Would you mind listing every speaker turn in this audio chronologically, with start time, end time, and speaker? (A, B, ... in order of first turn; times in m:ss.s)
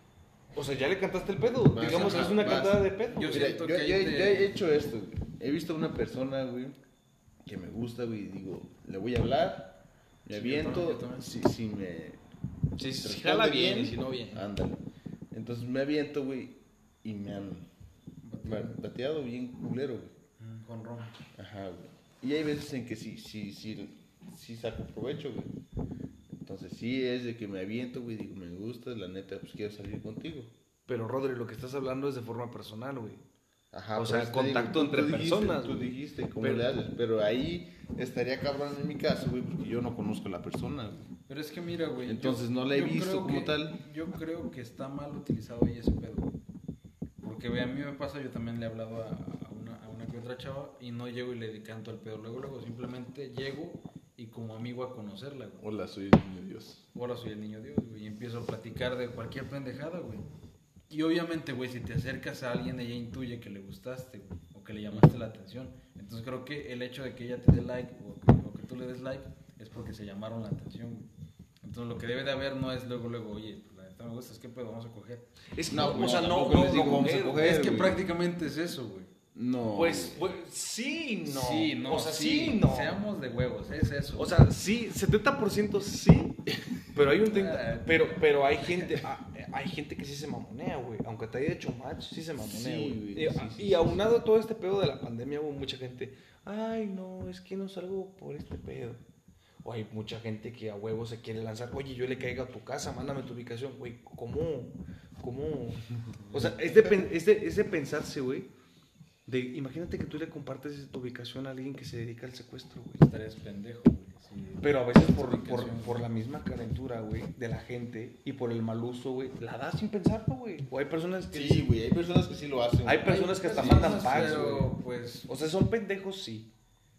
0:00.6-0:03.5 A
0:01.7-0:06.8 B
0:01.8-0:02.4 C
0:03.1-0:04.5 C
0:07.4-0:12.2 B
0:10.3-0:11.3 C
0:12.8-0:14.4 A
0:13.0-0:17.7 B
0:13.9-0:14.3 C
0:18.2-0:18.8 C
0:18.4-0:20.1 B
0:20.4-0:21.2 C
0:21.4-0:25.5 B
0:26.3-0:30.5 B
0:30.9-0:33.2 A
0:33.7-0:41.1 B
0:34.0-0:36.7 A
0:41.3-0:46.4 C
0:42.1-0:43.8 B
0:47.2-0:55.6 C
0:55.6-0:56.8 B
0:56.9-1:00.3 C
1:00.9-1:11.1 C
1:04.9-1:05.2 B
1:11.6-1:19.1 C
1:15.6-1:17.7 A
1:15.7-1:18.0 B
1:19.3-1:20.3 B
1:19.7-1:23.0 A
1:21.3-1:24.4 C
1:24.2-1:39.0 A
1:27.3-1:28.2 C
1:32.4-1:34.0 B
1:39.6-1:48.5 A
1:49.3-1:53.0 A
1:53.0-1:56.1 C
1:54.6-2:01.7 A
2:01.3-2:04.5 B
2:02.8-2:04.7 A
2:03.0-2:05.3 C
2:05.3-2:06.5 A